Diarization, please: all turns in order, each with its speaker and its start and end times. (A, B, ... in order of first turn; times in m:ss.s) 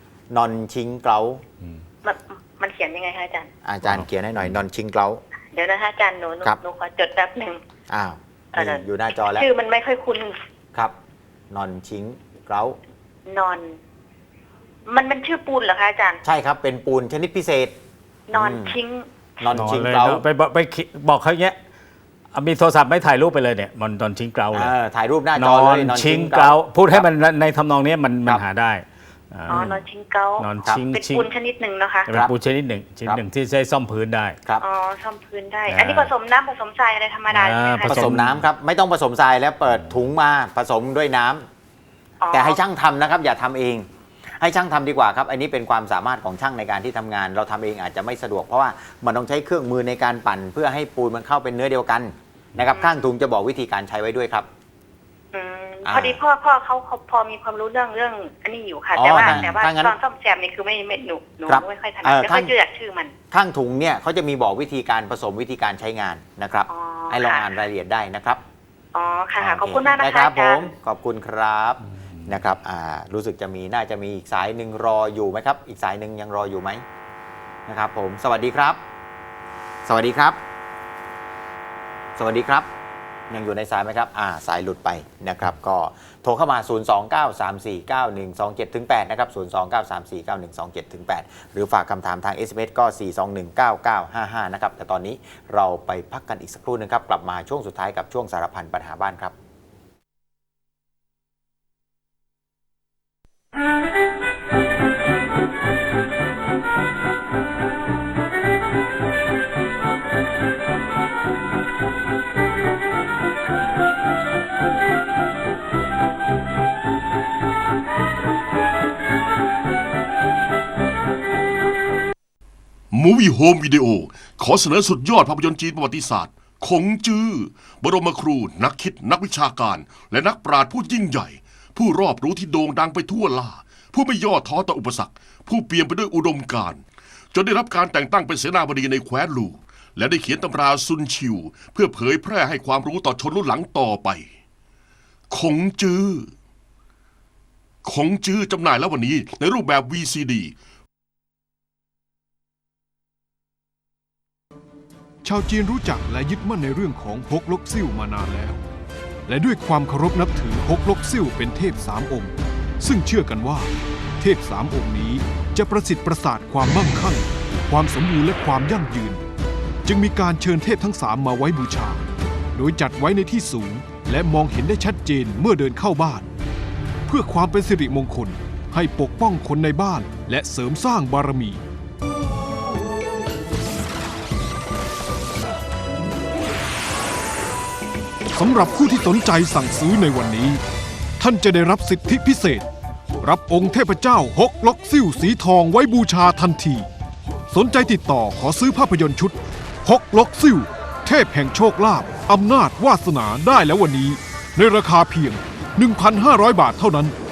0:00.3-0:01.4 A
0:02.0-0:03.5 B
0:03.6-0:05.2 A
0:03.8-0:04.6 C
0:05.5-0:07.6 B
0:07.9-0:09.5 A
0:08.6-0:10.4 B
0:11.5-0:12.8 A
0:13.3-0:13.8 B
0:14.9-0:16.2 B
0:16.2-0:17.7 A
0:18.3-0:19.5 B
0:18.3-0:18.8 A
0:19.4-0:20.2 A
0:19.5-0:21.6 C
0:22.3-0:24.7 C
0:24.5-0:27.1 A
0:25.4-0:29.8 C
0:29.5-0:32.1 B
0:30.4-0:31.3 C
0:32.1-0:34.4 C
0:34.6-0:37.9 B
0:35.7-0:36.1 C
0:37.3-0:38.4 C
0:37.8-0:41.4 A
0:42.2-0:42.6 B
0:42.3-0:54.5 A
0:55.3-1:03.2 B
0:55.8-0:56.2 A
0:59.0-1:00.0 A
0:59.2-0:59.6 C
1:01.5-1:02.5 A
1:03.3-1:08.4 A
1:06.7-1:07.5 B
1:08.9-1:10.6 B
1:09.4-1:16.8 A
1:17.7-1:18.8 A
1:19.8-1:20.4 A
1:22.2-1:22.7 A
1:23.3-1:39.3 A
2:02.9-2:16.8 D
2:17.3-2:24.3 D
2:25.3-2:26.3 D
2:27.8-2:30.5 D
2:35.2-2:38.6 E
2:39.3-2:49.2 E
2:49.8-2:56.3 E
2:57.1-3:01.6 E
3:08.3-3:10.6 E
3:11.2-3:12.7 E
3:13.2-3:16.9 E
3:17.5-3:27.2 E